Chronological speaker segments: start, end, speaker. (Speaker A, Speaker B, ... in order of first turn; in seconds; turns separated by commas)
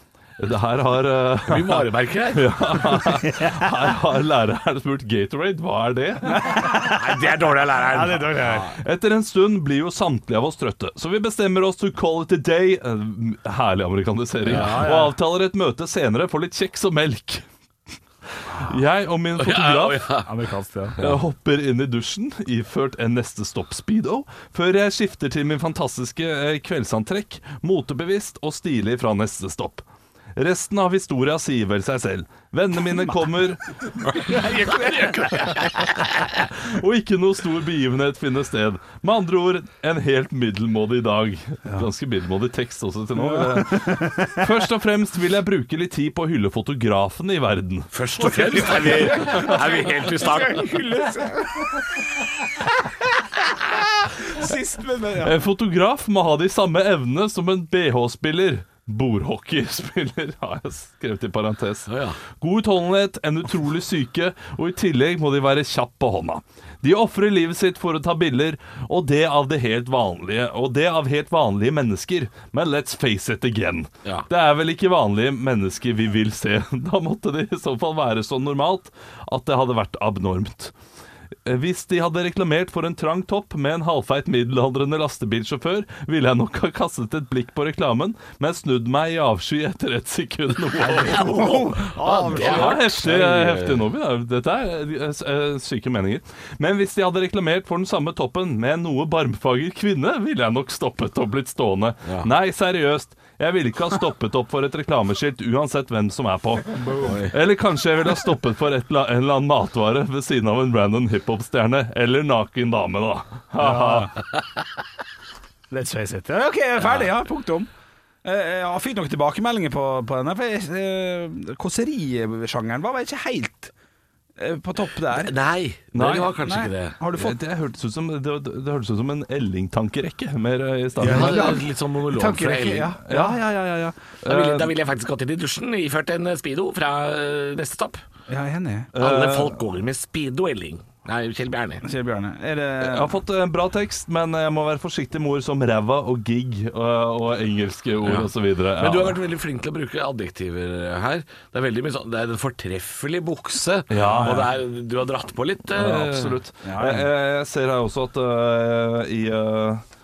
Speaker A: 0.4-6.6, Speaker B: 1.4-2.9, Speaker C: 3.2-3.6, Speaker C: 6.3-7.3, Speaker B: 6.6-8.8, Speaker C: 7.8-8.7, Speaker A: 8.7-17.4, Speaker C: 14.4-15.2, Speaker B: 14.5-14.9, Speaker A: 18.5-20.1, Speaker B: 19.4-20.3, Speaker C: 20.3-21.0, Speaker A: 21.0-29.9, Speaker A: 30.4-33.6, Speaker B: 34.1-36.4, Speaker C: 34.3-35.1, Speaker A: 36.0-47.9, Speaker C: 43.2-44.5, Speaker B: 47.9-51.0, Speaker C: 48.2-51.8, Speaker A: 48.4-49.6, Speaker C: 54.2-55.4, Speaker A: 55.2-80.7, Speaker B: 61.9-62.2, Speaker A: 81.5-91.7, Speaker C: 90.8-92.9, Speaker B: 91.1-93.9, Speaker A: 92.3-114.1, Speaker C: 106.8-107.2, Speaker B: 107.0-107.3, Speaker C: 113.6-114.1, Speaker C: 115.7-117.7, Speaker C: 118.2-123.7, Speaker C: 124.4-125.3, Speaker B: 125.1-127.0, Speaker A: 125.9-126.4, Speaker C: 126.4-127.4, Speaker A: 127.2-131.6, Speaker B: 131.0-132.9, Speaker C: 131.0-133.9, Speaker A: 133.1-133.5, Speaker A: 134.2-134.7, Speaker B: 134.2-138.0, Speaker C: 138.3-138.9, Speaker A: 138.9-139.6, Speaker B: 138.9-141.8, Speaker C: 141.8-143.2, Speaker A: 142.8-149.2, Speaker B: 148.0-156.4, Speaker A: 153.9-154.5, Speaker C: 154.0-154.5, Speaker A: 155.7-159.8, Speaker C: 156.6-157.1